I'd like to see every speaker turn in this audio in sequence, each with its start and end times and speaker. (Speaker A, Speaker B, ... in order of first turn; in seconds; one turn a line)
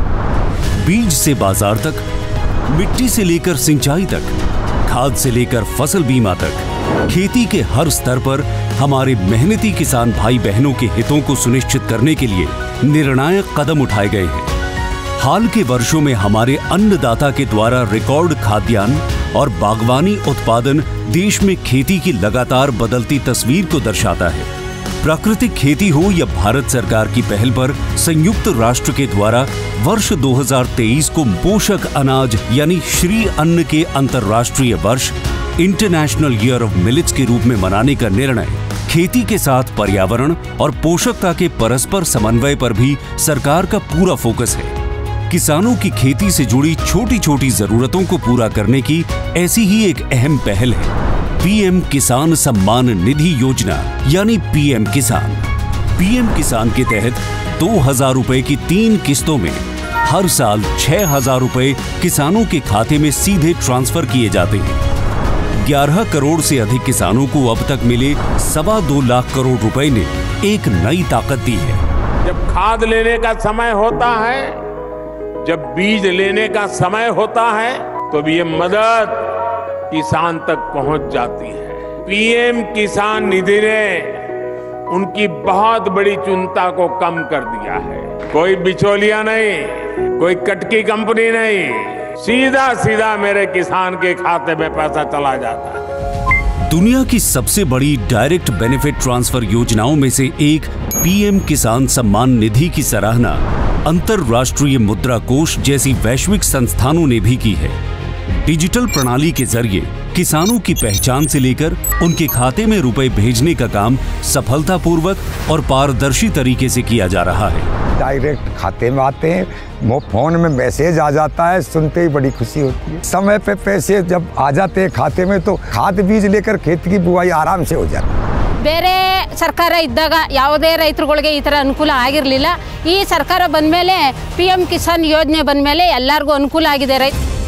Speaker A: 0.8-2.1
Speaker A: 2.7-14.5
Speaker A: 15.2-44.8
Speaker A: 45.3-64.8
Speaker A: 65.6-71.8
Speaker B: 72.2-74.6
Speaker B: 75.4-95.9
Speaker A: 96.7-107.8
Speaker A: 108.3-117.7
Speaker C: 118.0-128.1
Speaker B: 128.6-129.7
Speaker D: 128.8-137.0